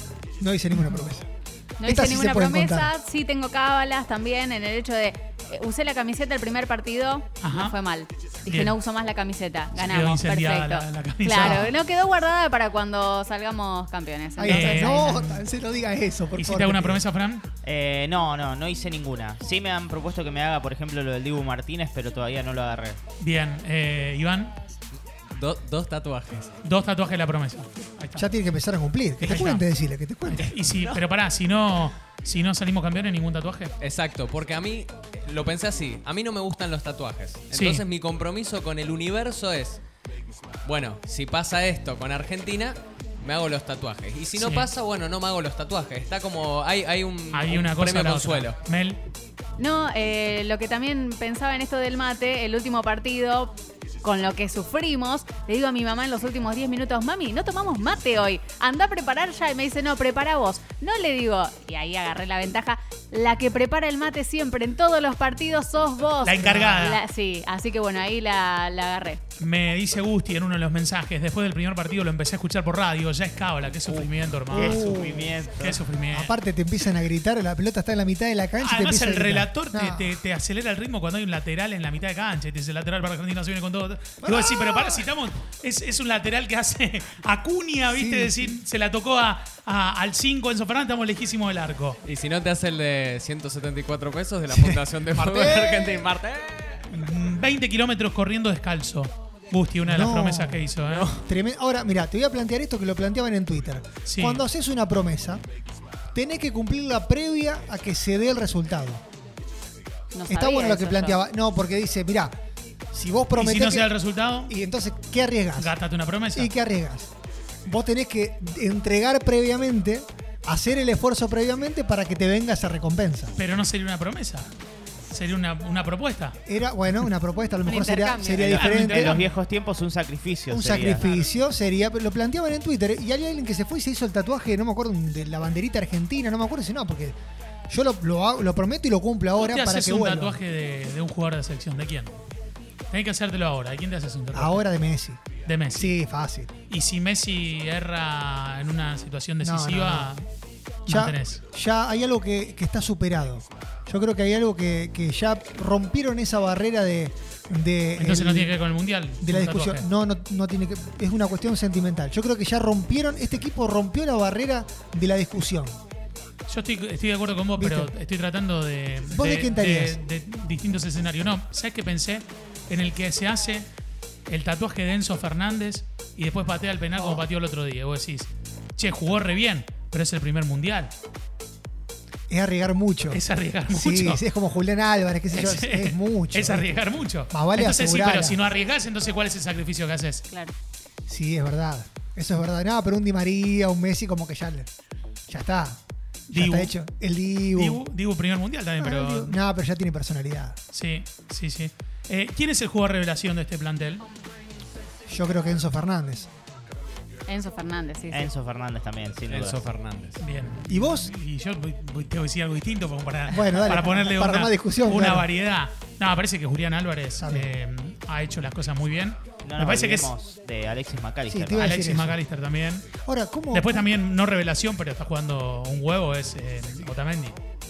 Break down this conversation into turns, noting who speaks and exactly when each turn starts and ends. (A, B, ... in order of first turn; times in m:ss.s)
0:00.4-0:01.3 A
0:00.8-0:01.1 B
0:01.8-0:15.3 C
0:01.9-0:02.9 A
0:07.4-0:07.8 B
0:08.4-0:08.8 B
0:09.8-0:11.8 B
0:14.4-0:17.0 A
0:14.5-0:15.4 B
0:16.4-0:17.5 B
0:17.6-0:23.0 D
0:23.2-0:24.5 B
0:25.3-0:26.5 E
0:26.6-0:28.3 B
0:28.2-0:30.5 A
0:29.2-0:29.6 B
0:30.3-0:33.7 B
0:30.4-0:31.0 E
0:33.8-0:39.8 E
0:37.5-0:37.8 B
0:40.6-0:48.6 E
0:44.4-0:44.7 B
0:47.3-0:49.0 B
0:49.6-1:09.2 C
1:06.2-1:07.0 B
1:09.4-1:15.0 B
1:13.9-1:15.8 D
1:14.5-1:15.4 A
1:15.6-1:16.3 B
1:16.1-1:20.1 A
1:18.6-1:32.0 B
1:24.2-1:25.1 A
1:27.9-1:28.6 A
1:32.1-1:36.8 E
1:34.5-1:36.0 A
1:36.9-1:41.1 B
1:39.8-1:45.4 A
1:40.8-1:41.2 E
1:44.1-1:44.4 B
1:46.1-1:49.0 A
1:50.1-1:51.2 C
1:50.3-1:52.4 A
1:52.9-1:55.8 A
1:53.4-1:54.5 B
1:55.6-1:56.5 B
1:56.3-1:57.1 A
1:57.7-2:03.3 A
2:03.4-2:04.5 B
2:05.1-2:06.4 B
2:06.5-2:09.2 A
2:07.6-2:08.6 C
2:08.4-2:11.1 D
2:08.4-2:09.3 B
2:10.5-2:17.2 A
2:17.7-2:20.4 A
2:19.4-2:22.1 B
2:22.9-2:24.6 B
2:24.3-2:25.2 A
2:25.5-2:25.9 B
2:25.8-2:26.5 A
2:26.7-2:30.3 B
2:29.4-2:30.2 A
2:30.9-2:31.4 B
2:30.9-2:38.5 A
2:38.0-2:39.9 B
2:39.2-2:45.8 A
2:46.5-2:53.7 B
2:47.6-2:47.9 A
2:49.1-2:50.0 A
2:54.3-3:00.9 B
2:57.0-2:57.3 A
3:02.3-3:08.4 A
3:03.1-3:04.2 B
3:05.3-3:10.2 B
3:11.1-3:14.7 A
3:15.3-3:17.8 A
3:16.3-3:16.8 B
3:17.5-3:19.4 B
3:18.8-3:20.6 A
3:20.7-3:24.1 B
3:25.1-3:26.3 A
3:27.3-3:28.3 C
3:28.1-3:29.8 D
3:29.3-3:30.2 E
3:30.2-3:40.1 B
3:30.7-3:31.1 A
3:33.3-3:35.3 A
3:37.2-3:37.5 A
3:39.4-3:41.7 D
3:41.3-3:42.2 A
3:41.6-3:42.9 B
3:43.0-3:43.9 A
3:43.5-3:47.4 B